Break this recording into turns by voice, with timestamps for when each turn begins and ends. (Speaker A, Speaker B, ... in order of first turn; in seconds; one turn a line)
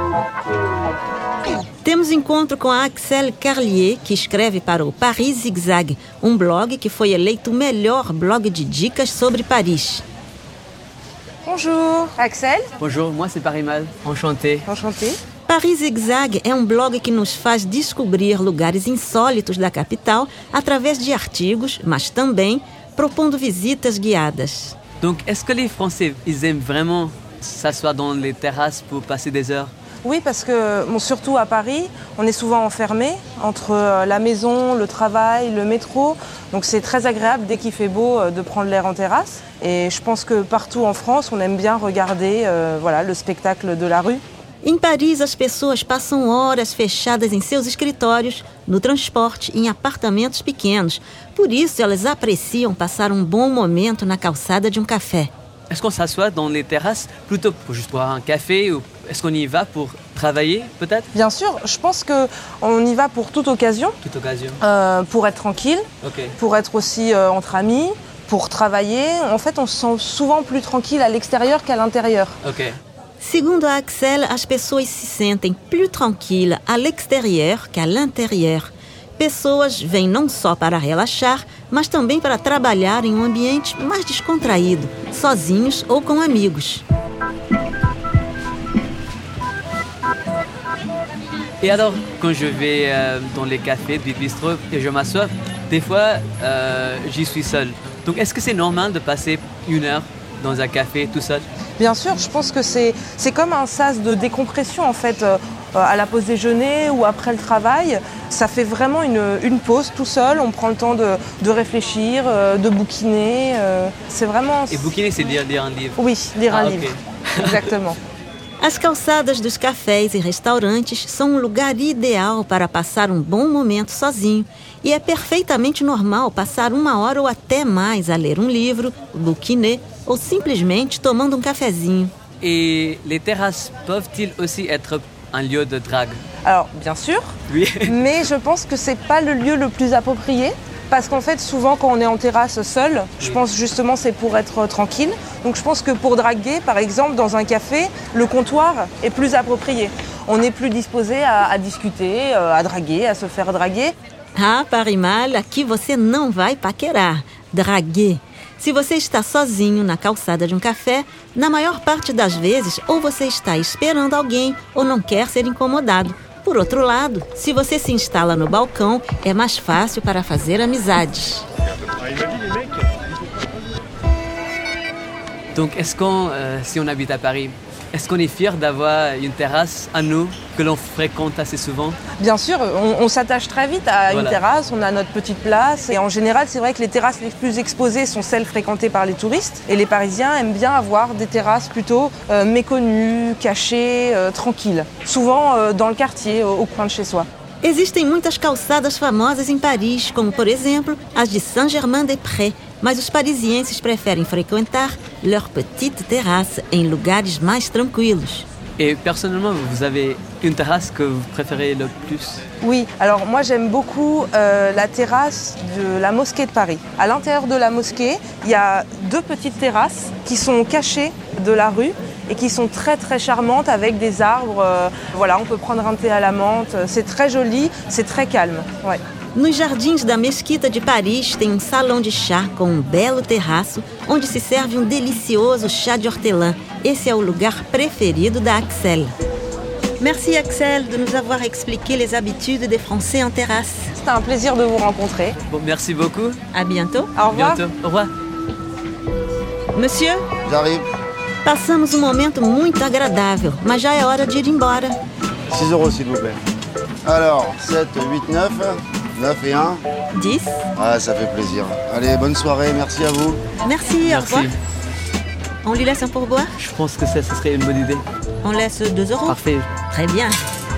Speaker A: 1.8-10.0
Speaker B: 11.4-12.7
Speaker C: 12.8-14.7
Speaker B: 14.7-15.2
Speaker A: 15.5-24.8
Speaker C: 25.0-29.7
Speaker B: 30.0-44.2
Speaker A: 44.6-55.3
Speaker C: 55.7-61.1
Speaker B: 61.1-63.9
Speaker C: 64.0-64.6
Speaker B: 64.6-65.8
Speaker C: 66.0-66.4
Speaker B: 66.4-72.3
Speaker C: 72.4-72.8
Speaker A: 73.2-86.8
Speaker C: 91.6-101.5
Speaker B: 101.8-114.9
Speaker C: 114.7-117.7
Speaker B: 116.0-118.0
Speaker A: 118.6-132.1
Speaker C: 132.4-136.2
Speaker B: 136.5-137.3
Speaker C: 137.5-138.0
Speaker B: 137.9-153.9
Speaker A: 154.4-171.5
Speaker C: 175.5-182.0
Speaker B: 182.2-197.3
Speaker C: 184.1-184.4
Speaker A: 197.6-208.5
Speaker C: 208.8-212.4
Speaker B: 212.6-229.0
Speaker A: 229.3-239.1
Speaker A: 240.0-244.0
Speaker B: 244.0-245.4
Speaker C: 245.5-246.4
Speaker A: 246.5-247.1
Speaker B: 247.2-247.6
Speaker C: 247.3-248.1
Speaker A: 249.8-250.3
Speaker D: 250.4-250.9
Speaker A: 251.4-254.9
Speaker D: 255.5-256.4
Speaker D: 257.0-259.8
Speaker A: 260.1-260.6
Speaker D: 260.8-263.4
Speaker A: 263.6-264.5
Speaker C: 264.0-264.6
Speaker A: 265.6-266.6
Speaker C: 266.6-268.0
Speaker A: 268.4-269.4
Speaker C: 269.3-269.7
Speaker A: 269.9-270.4